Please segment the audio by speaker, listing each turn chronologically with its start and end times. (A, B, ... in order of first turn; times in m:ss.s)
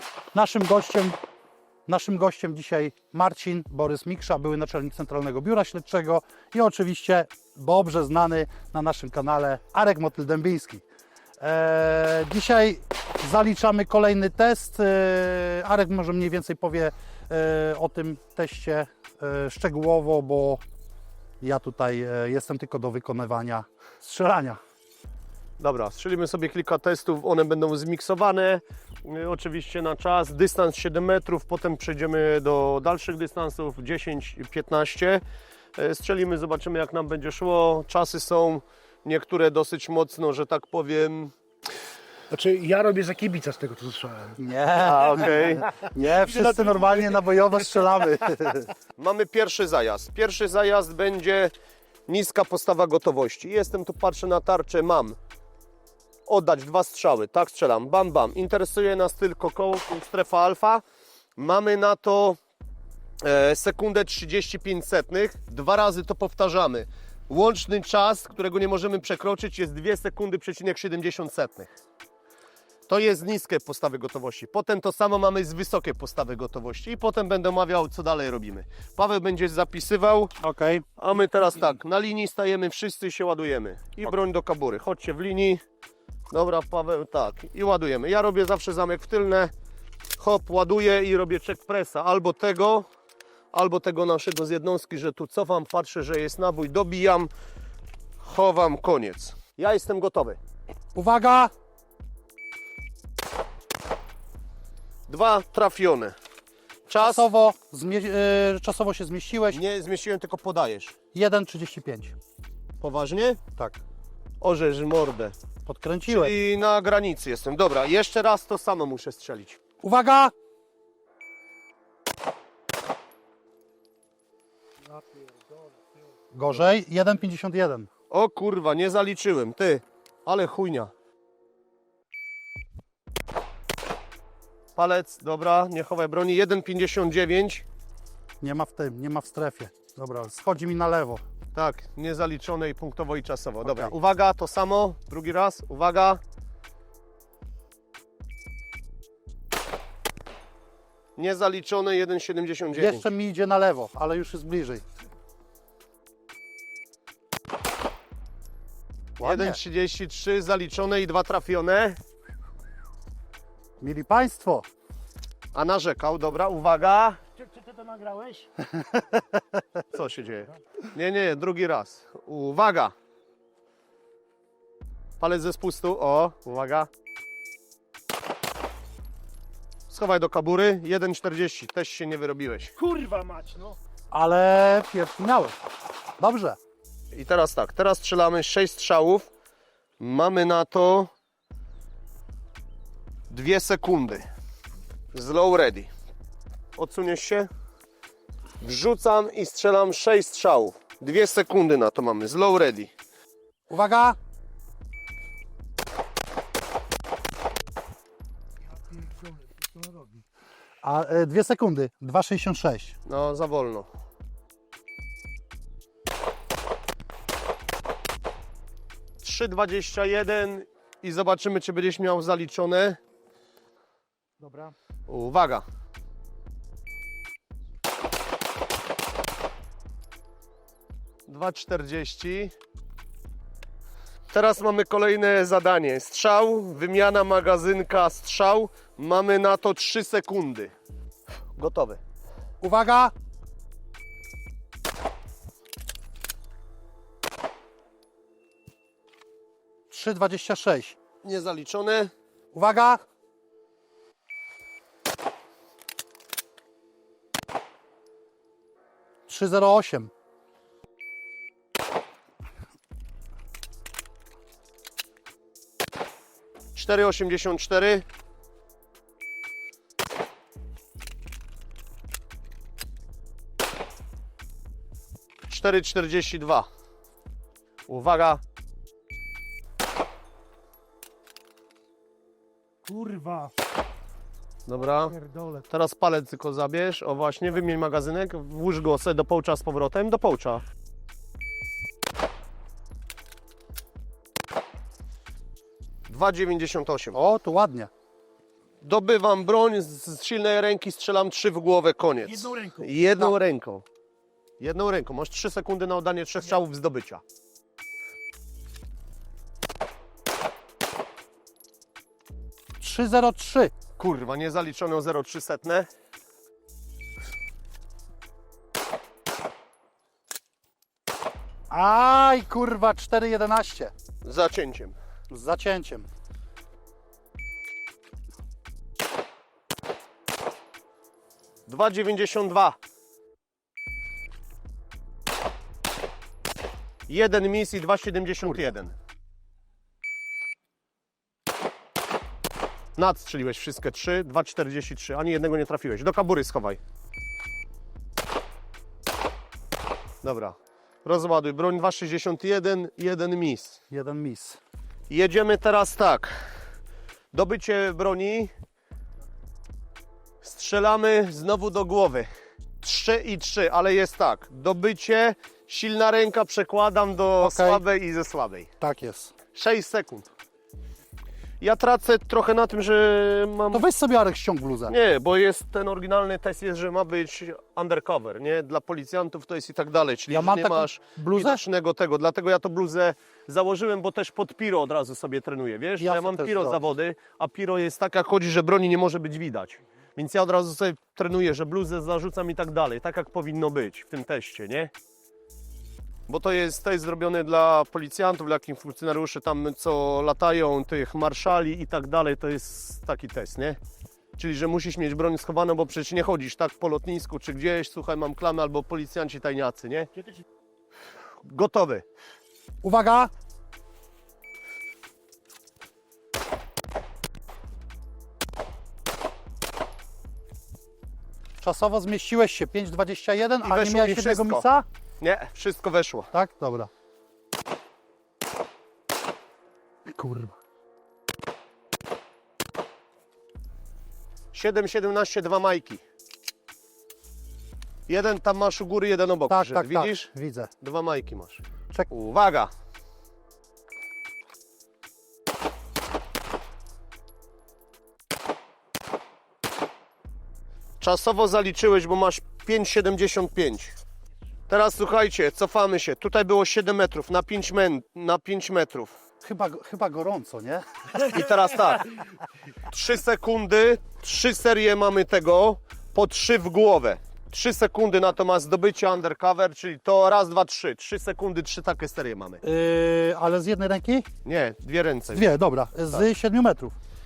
0:00.3-0:01.2 A
0:01.9-0:10.8 A
0:11.4-0:20.6 A
0:21.4-0:24.6 A
0:25.6-0:35.2 B
0:35.8-0:41.3 B
0:42.3-0:44.4 C
0:44.4-0:48.7 A
0:44.8-0:45.7 B
0:46.2-0:47.1 C
0:49.0-0:51.5 B
0:52.1-0:55.2 B
0:56.3-1:00.8 B
1:01.4-1:02.4 B
1:03.2-1:11.7 B
1:12.9-1:20.4 B
1:20.4-1:20.8 A
1:21.0-1:25.6 B
1:26.3-1:29.5 B
1:30.2-1:32.9 B
1:33.5-1:37.3 B
1:38.2-1:40.4 B
1:41.0-1:41.5 A
1:45.1-1:46.2 B
1:46.9-1:47.3 B
1:47.0-1:49.6 A
1:49.5-1:51.0 B
1:51.1-1:52.2 A
1:52.8-1:53.4 B
1:54.4-1:55.4 B
1:55.7-1:56.4 A
1:56.0-1:59.6 B
1:59.8-2:00.3 A
2:06.3-2:07.9 A
2:08.1-2:10.9 B
2:14.8-2:17.6 B
2:18.4-2:21.2 A
2:21.5-2:26.2 B
2:23.6-2:23.9 A
2:31.2-2:33.1 B
2:32.7-2:34.8 A
2:39.2-2:39.6 A
2:39.2-2:42.0 B
2:43.8-2:44.7 A
2:45.5-2:47.2 B
2:47.4-2:48.5 C
2:48.8-2:49.2 A
2:49.9-2:52.9 B
2:55.2-2:56.9 B
2:59.9-3:02.8 B
3:02.8-3:03.8 C
3:04.1-3:05.6 A
3:06.2-3:06.6 A
3:07.1-3:09.3 B
3:10.0-3:11.1 B
3:13.3-3:14.3 B
3:15.1-3:15.9 B
3:16.8-3:17.5 B
3:18.6-3:22.9 B
3:23.7-3:24.2 A
3:28.9-3:30.2 C
3:30.8-3:33.0 A
3:33.1-3:33.9 B
3:39.2-3:43.0 B
3:44.4-3:44.7 C
3:45.1-3:45.6 B
3:51.3-3:52.5 B
3:54.3-4:00.7 B
4:01.6-4:02.0 B
4:02.6-4:03.1 A
4:09.9-4:11.0 A
4:11.2-4:12.1 B
4:12.5-4:13.0 A
4:19.3-4:20.1 A
4:26.7-4:28.0 B
4:35.5-4:36.7 B
4:37.9-4:38.4 B
4:42.9-4:43.5 C
4:44.7-4:45.2 B
4:45.1-4:45.6 C
4:45.7-4:50.6 B
4:56.1-4:57.2 B
4:57.1-4:57.9 A
4:58.8-5:03.8 B
5:02.4-5:02.8 C
5:04.6-5:07.2 B
5:12.8-5:13.7 A
5:14.0-5:15.9 B
5:21.7-5:23.9 A
5:24.2-5:25.0 B
5:25.3-5:26.1 A
5:31.7-5:32.8 B
5:37.1-5:38.9 B
5:43.0-5:46.8 B
5:50.2-5:53.8 B
5:53.9-5:54.6 A
5:55.1-5:56.3 B
5:57.3-5:58.5 B
6:00.4-6:02.3 B
6:02.8-6:08.7 B
6:07.4-6:07.8 A
6:08.8-6:09.3 A
6:09.5-6:10.3 B
6:11.6-6:13.8 B
6:13.7-6:15.0 A
6:14.9-6:34.9 B
6:20.3-6:21.6 A
6:26.0-6:26.8 A
6:36.3-6:43.8 B
6:44.4-6:50.1 B
6:51.4-6:52.0 B
6:52.8-6:53.3 A
7:01.6-7:04.9 A
7:03.6-7:04.6 B
7:05.2-7:06.3 B
7:06.3-7:06.9 A
7:10.1-7:10.6 A
7:14.5-7:16.0 B
7:18.1-7:22.7 B
7:19.5-7:20.7 A
7:31.0-7:34.0 B
7:34.7-7:39.1 B
7:39.4-7:41.2 A
7:41.2-7:42.1 B
7:42.9-7:52.6 B
7:52.6-7:54.3 A
7:54.4-7:56.3 B
7:55.3-7:57.0 A